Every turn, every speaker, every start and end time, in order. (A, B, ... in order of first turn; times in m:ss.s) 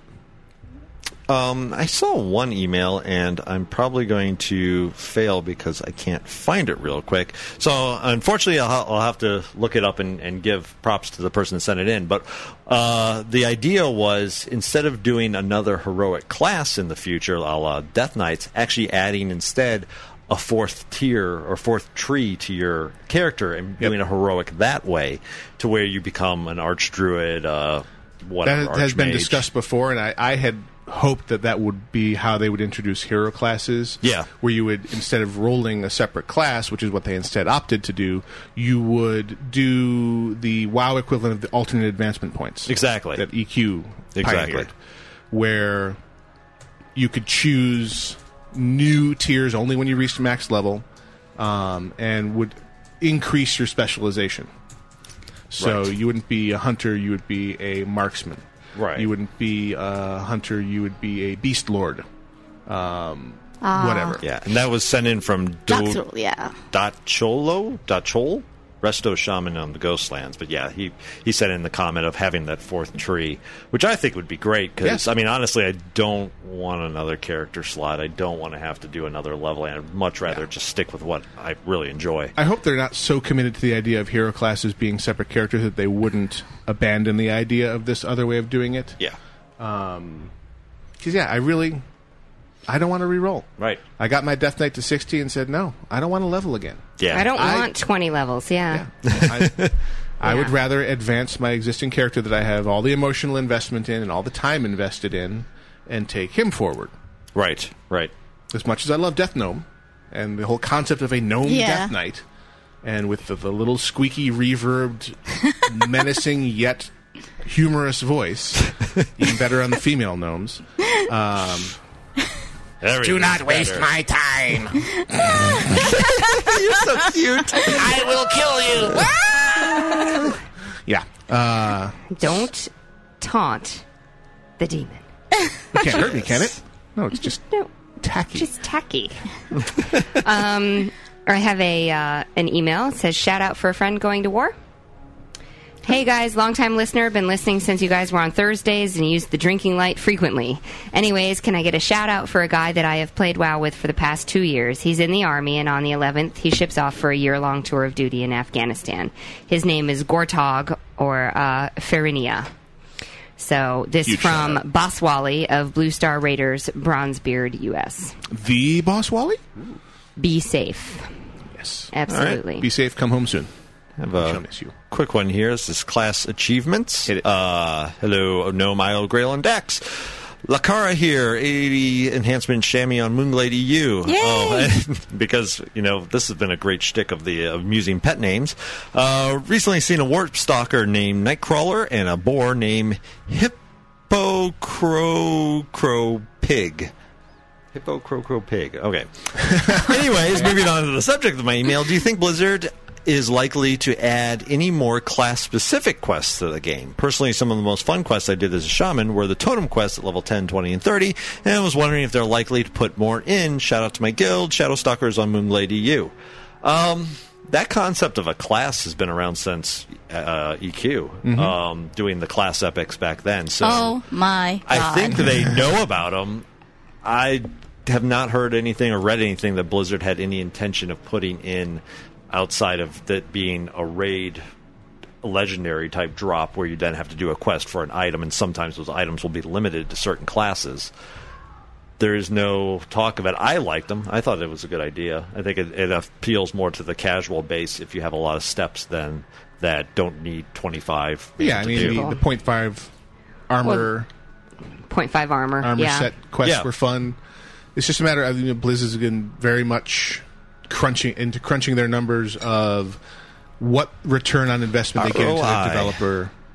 0:01.3-0:29.5 A
0:28.4-0:44.7 B
0:34.0-0:34.3 A
0:42.7-0:43.2 A
0:44.2-0:44.7 A
0:45.3-0:46.0 B
0:47.0-0:50.8 B
0:51.4-0:54.5 B
0:55.5-0:58.4 B
0:55.6-0:55.9 A
0:58.8-0:59.1 A
0:59.0-1:02.0 B
1:02.7-1:04.2 B
1:03.6-1:04.2 C
1:04.2-1:06.0 A
1:05.7-1:06.5 C
1:06.7-1:22.4 A
1:14.8-1:15.1 B
1:22.4-1:29.0 B
1:29.6-1:30.3 B
1:31.0-1:31.8 B
1:32.7-1:37.7 B
1:37.0-1:37.3 A
1:37.1-1:38.8 D
1:38.7-1:46.9 B
1:39.1-1:39.7 A
1:40.2-1:40.6 D
1:47.4-1:48.1 A
1:48.5-1:52.2 B
1:51.4-1:51.9 C
1:52.8-1:56.9 B
1:57.4-2:01.7 B
2:02.8-2:03.9 A
2:03.0-2:04.7 E
2:05.5-2:08.0 A
2:07.6-2:09.1 E
2:08.8-2:09.1 A
2:10.9-2:12.0 B
2:12.1-2:13.8 D
2:14.6-2:15.0 D
2:15.7-2:17.5 B
2:15.8-2:16.5 A
2:18.0-2:18.5 B
2:18.4-2:19.2 D
2:20.0-2:24.6 D
2:25.8-2:42.5 D
2:43.4-2:48.2 D
2:44.0-2:44.6 B
2:48.3-2:49.5 B
2:50.2-2:51.1 D
2:51.6-2:51.9 B
2:51.9-2:52.7 D
2:52.1-2:52.4 A
2:52.6-2:53.5 B
2:54.0-3:13.6 A
2:54.2-2:54.7 B
3:04.1-3:04.7 C
3:14.1-3:16.9 A
3:17.7-3:44.0 A
3:41.2-3:41.6 B
3:43.6-3:45.3 C
3:44.7-3:46.4 A
3:47.0-3:54.4 A
3:55.2-4:00.9 A
4:02.0-4:12.1 A
4:11.4-4:12.9 B
4:11.7-4:12.2 D
4:13.5-4:14.1 B
4:13.6-4:13.9 D
4:14.9-4:16.1 D
4:15.6-4:17.2 B
4:16.4-4:16.7 A
4:17.8-4:23.0 B
4:23.6-4:26.3 B
4:25.0-4:26.0 A